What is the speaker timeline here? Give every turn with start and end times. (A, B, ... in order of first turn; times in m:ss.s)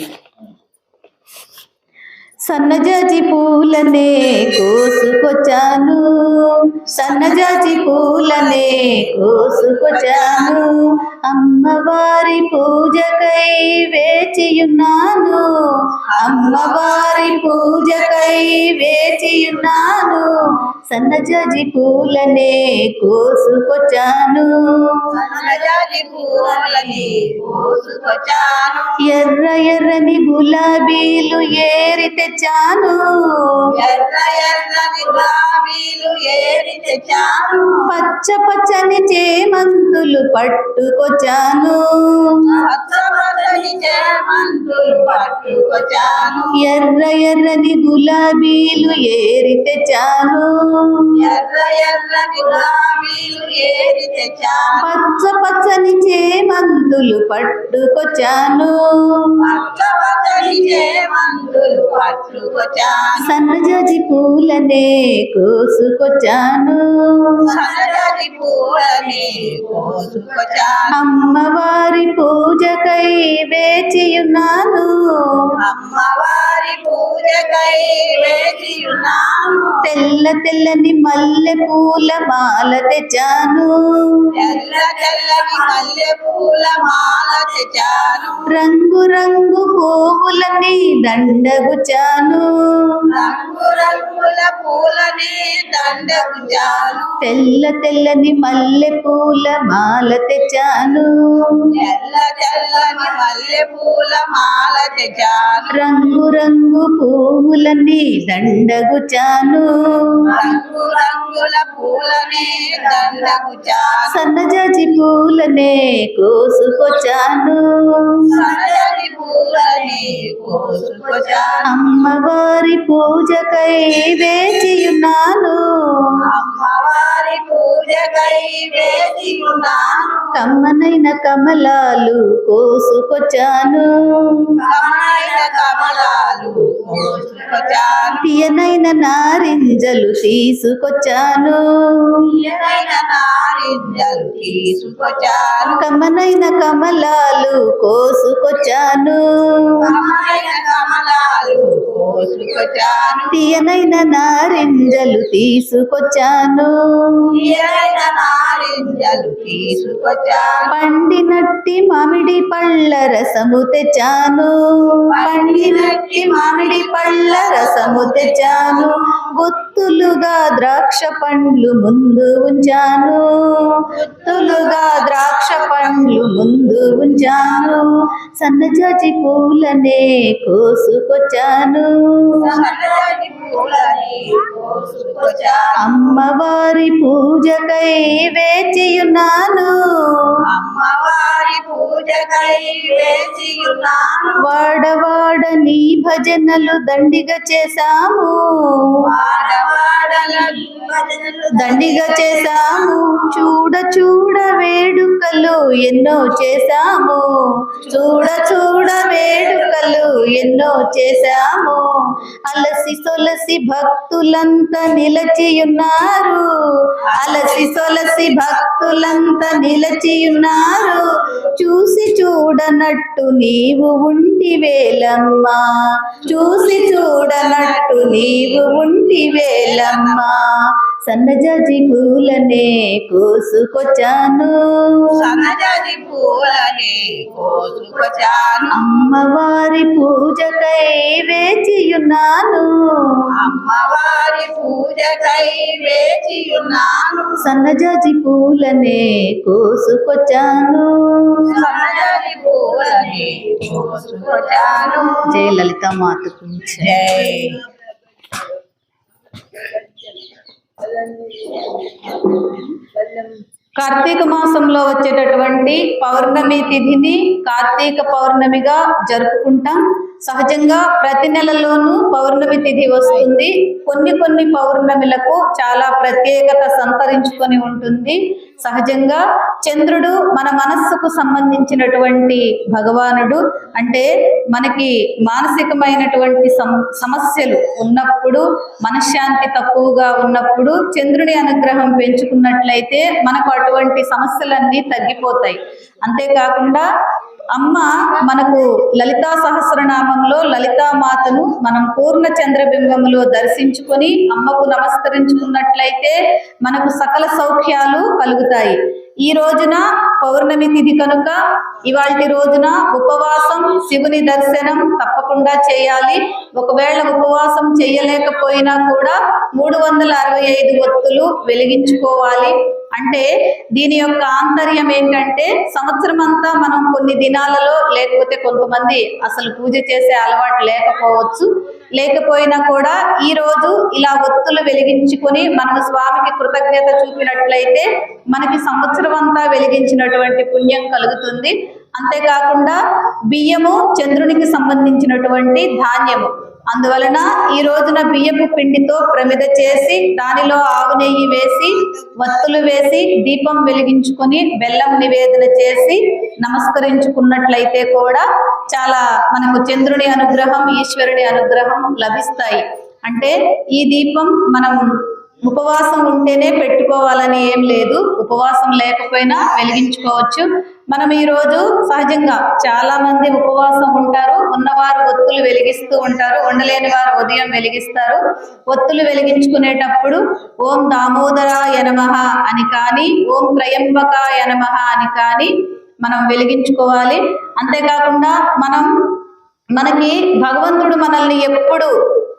0:02.4-0:25.1 A
0:07.1-0:10.6 B
0:16.1-0:18.4 B
0:25.1-0:29.0 B
0:29.0-0:33.7 A
0:33.7-0:37.9 B
0:37.9-0:42.5 A
0:42.5-0:46.5 B
0:46.6-0:51.2 A
0:51.1-0:54.9 B
0:54.8-0:59.4 A
0:59.4-1:03.3 B
1:03.2-1:07.5 A
1:07.4-1:10.9 B
1:10.9-1:15.5 A
1:15.6-1:19.8 B
1:19.8-1:24.3 A
1:24.3-1:28.5 B
1:28.5-1:33.0 A
1:33.1-1:37.1 B
1:37.2-1:41.7 A
1:41.7-1:45.8 B
1:45.7-1:50.3 A
1:50.3-1:54.1 B
1:54.1-1:58.3 A
1:58.3-2:01.7 B
2:01.6-2:06.2 A
2:06.3-2:10.3 B
2:10.4-2:14.6 A
2:14.6-2:18.2 B
2:18.2-2:22.2 A
2:22.2-2:25.9 B
2:25.8-2:29.8 A
2:29.8-2:33.4 B
2:33.3-2:37.3 A
2:37.3-2:40.7 B
2:40.7-3:02.6 A
2:45.1-2:49.0 B
2:53.9-2:55.9 B
3:02.4-3:05.9 B
3:05.8-3:10.4 A
3:10.5-3:14.5 B
3:14.4-3:19.0 A
3:19.0-3:23.2 B
3:21.5-3:55.4 A
3:37.0-3:39.4 B
3:46.2-3:48.8 B
3:49.5-3:50.3 B
3:55.1-3:58.8 B
3:58.7-4:03.3 A
4:03.3-4:07.4 B
4:07.4-4:11.6 A
4:11.4-4:15.3 B
4:14.9-4:17.6 A
4:16.8-4:17.6 B
4:23.8-4:56.9 A
4:57.6-5:42.8 A
5:43.3-6:04.8 A
6:05.4-6:28.9 A
6:29.8-6:31.9 A